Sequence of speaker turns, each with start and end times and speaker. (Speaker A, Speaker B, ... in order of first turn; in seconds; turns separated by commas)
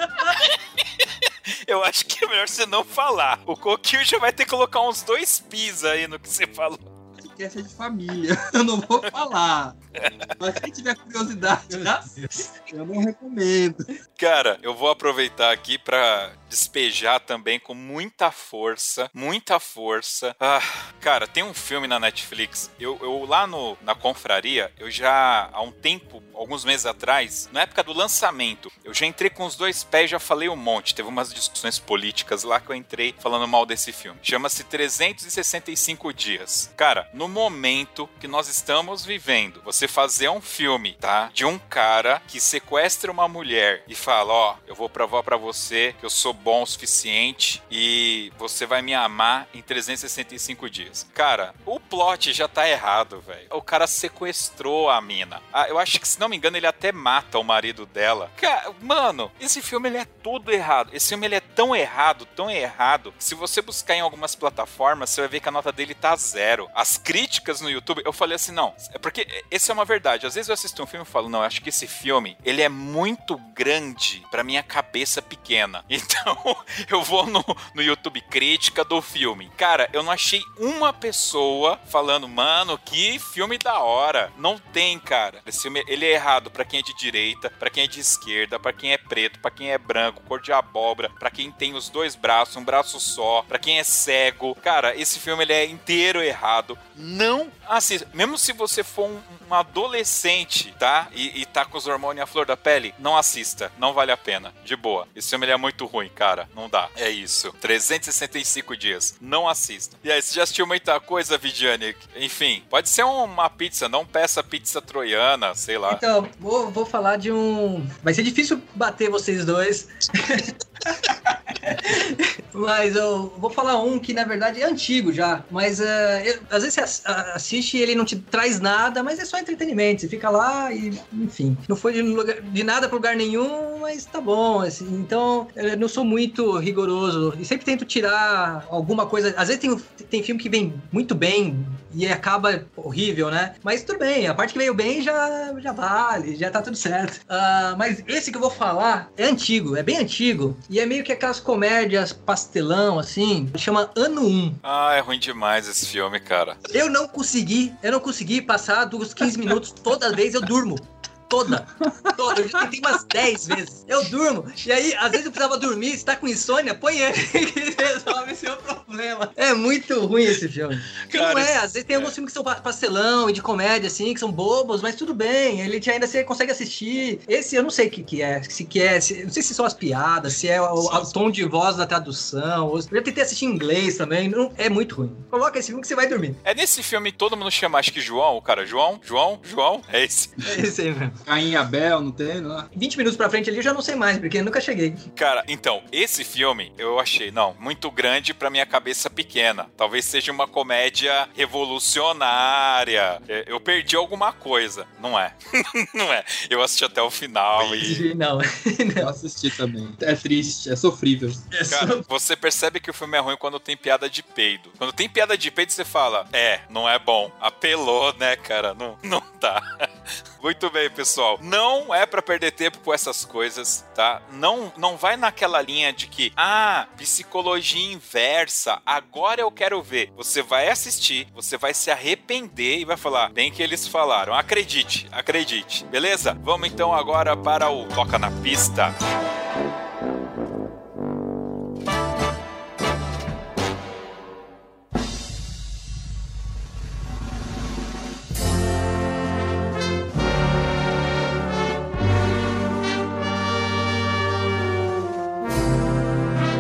Speaker A: 0.2-6.9, Speaker B: 7.2-9.8, Speaker A: 10.0-10.3, Speaker B: 10.4-13.9, Speaker C: 12.1-12.4, Speaker A: 14.2-116.0, Speaker C: 115.9-154.6, Speaker A: 154.6-156.7, Speaker C: 156.7-186.4, Speaker A: 171.1-172.2, Speaker A: 186.4-190.5, Speaker C: 190.4-191.2, Speaker B: 191.2-192.7, Speaker C: 192.7-195.0, Speaker A: 195.2-208.1, Speaker C: 207.6-209.1, Speaker B: 209.0-211.5, Speaker C: 211.5-212.0, Speaker A: 211.7-219.9, Speaker A: 220.4-239.0